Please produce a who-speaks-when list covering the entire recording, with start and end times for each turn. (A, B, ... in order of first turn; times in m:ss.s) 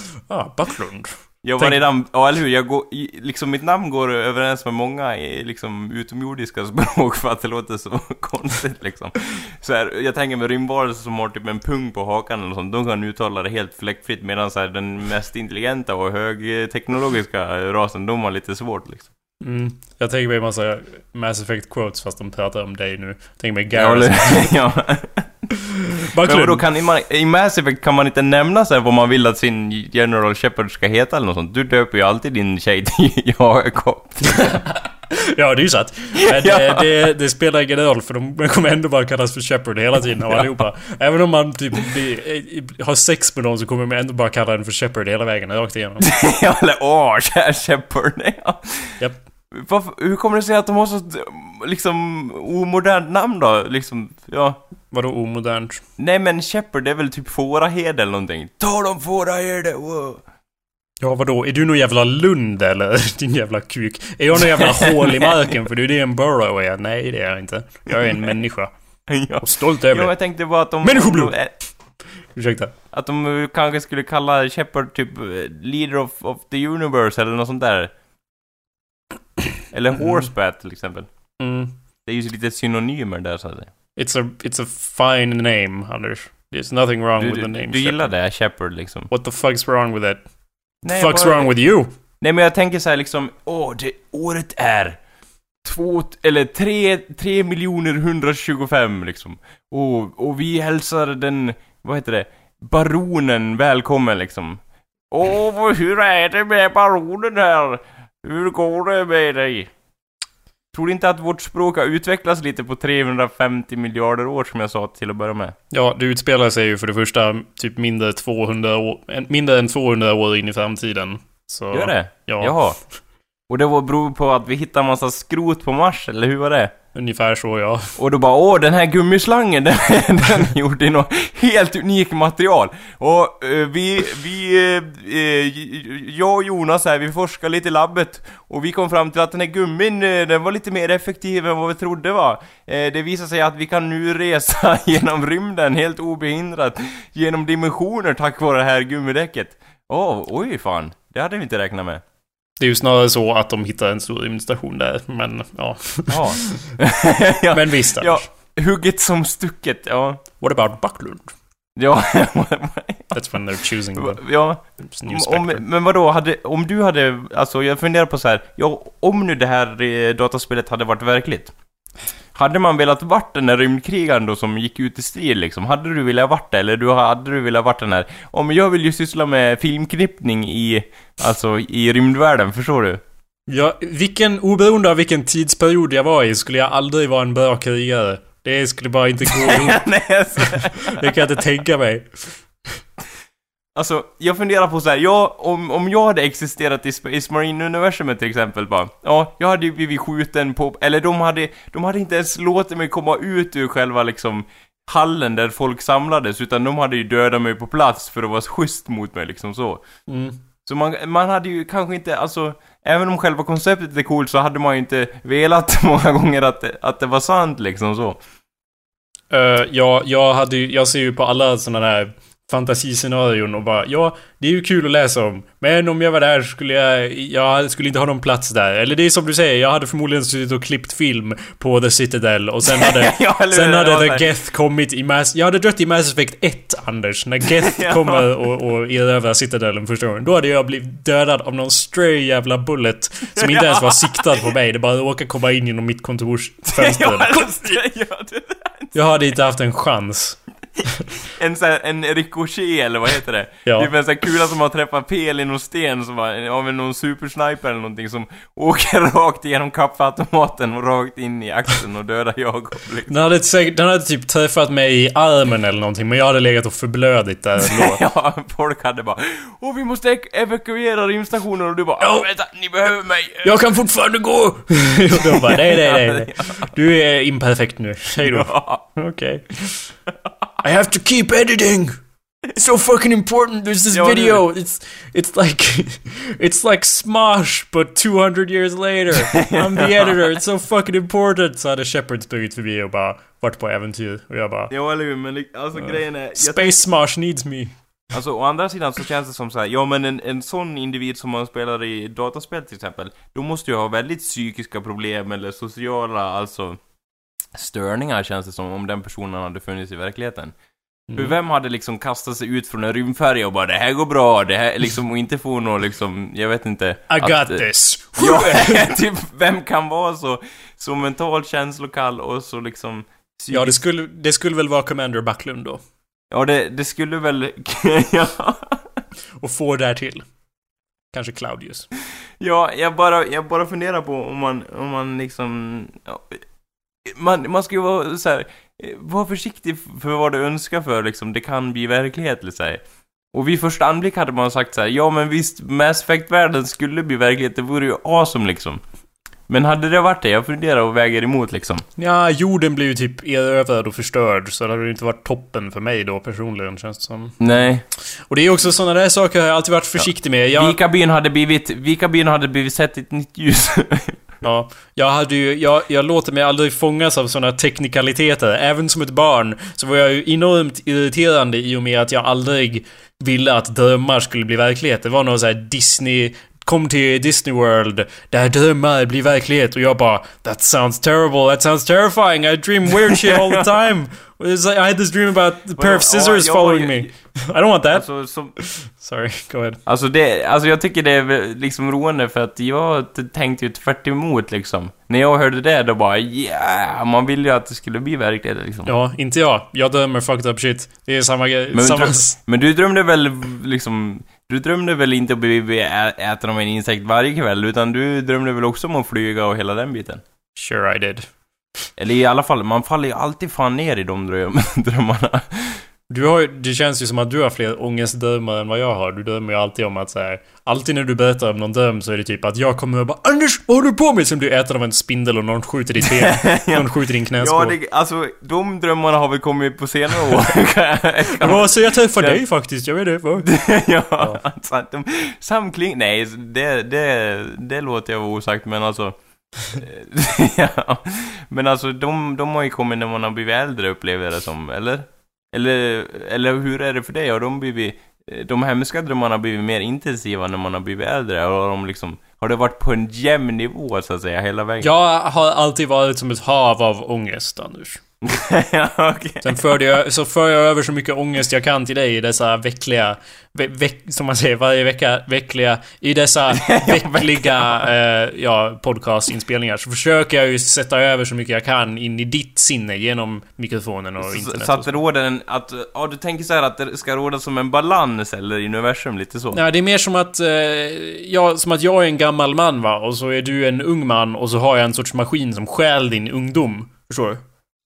0:00.3-0:01.8 A
0:01.4-0:19.1 B
0:19.4-0:24.5 A
0:23.7-0:25.3 B
0:26.1-0:26.6 A
0:26.2-0:34.7 B
0:35.1-0:46.1 A
0:36.2-0:37.1 B
0:46.0-0:48.8 B
0:49.5-0:54.6 B
0:54.9-0:55.8 A
0:56.0-1:00.2 B
1:01.0-1:08.7 A
1:04.7-1:05.2 B
1:09.1-1:11.5 B
1:09.4-1:10.1 A
1:10.8-1:11.3 A
1:12.3-1:12.7 A
1:12.9-1:17.9 B
1:19.7-1:21.1 B
1:21.4-1:21.7 A
1:22.0-1:23.7 B
1:24.0-1:28.1 A
1:27.2-1:29.1 B
1:29.1-1:30.2 A
1:30.8-1:31.5 B
1:30.9-1:31.9 A
1:32.2-1:35.0 B
1:35.6-1:49.7 B
1:50.7-1:55.5 B
1:55.7-2:02.5 A
2:01.7-2:02.8 B
2:03.5-2:06.7 B
2:06.9-2:07.9 A
2:08.0-2:32.0 B
2:32.6-2:36.6 A
2:36.1-2:40.2 B
2:37.5-2:38.2 A
2:40.4-2:41.3 A
2:41.8-2:43.2 B
2:43.1-2:44.2 A
2:43.9-2:51.5 B
2:44.8-2:45.6 A
2:52.3-3:03.0 B
3:03.5-3:09.8 A
3:09.4-3:11.1 B
3:10.4-3:12.4 A
3:13.8-3:29.8 B
3:30.1-3:30.4 A
3:30.6-3:38.2 B
3:39.3-4:07.8 A
3:52.6-3:54.2 B
3:57.7-3:58.3 B
4:03.4-4:04.2 B
4:06.7-4:08.9 B
4:08.9-4:10.4 A
4:11.3-4:23.1 B
4:23.1-4:28.0 A
4:27.6-4:33.5 B
4:32.0-4:32.2 A
4:33.4-4:39.7 A
4:35.2-4:36.7 B
4:38.2-4:38.8 B
4:40.6-4:42.0 A
4:42.5-4:54.7 A
4:43.9-4:44.4 B
4:49.3-4:50.2 B
4:54.7-4:56.8 B
4:56.4-4:57.7 A
4:58.1-5:06.8 B
5:07.5-5:10.5 B
5:11.1-5:11.3 A
5:11.2-5:17.6 B
5:17.1-5:18.9 A
5:18.2-5:23.8 B
5:23.5-5:25.8 A
5:26.3-5:28.8 B
5:29.4-5:30.2 A
5:31.1-5:31.9 A
5:32.4-5:36.4 B
5:37.0-5:42.8 B
5:43.3-5:48.8 B
5:49.5-5:51.8 B
5:52.0-5:57.4 A
5:57.4-5:57.8 B
5:58.3-6:00.8 A
6:00.6-6:04.2 B
6:04.4-6:28.0 A
6:23.0-6:23.7 B
6:25.8-6:27.1 B
6:27.9-6:28.5 B
6:28.6-6:29.8 A
6:29.8-6:38.9 B
6:38.8-6:42.4 A
6:41.7-6:50.2 B
6:50.6-6:51.3 A
6:52.0-6:55.8 B
6:56.1-7:07.8 A
7:06.0-7:12.4 B
7:11.4-7:13.5 A
7:13.4-7:19.2 B
7:19.7-7:34.9 B
7:34.8-7:38.0 A
7:38.2-7:39.7 B
7:39.4-7:54.9 A
7:46.5-7:47.9 B
7:54.2-7:59.6 B
7:59.5-8:07.4 A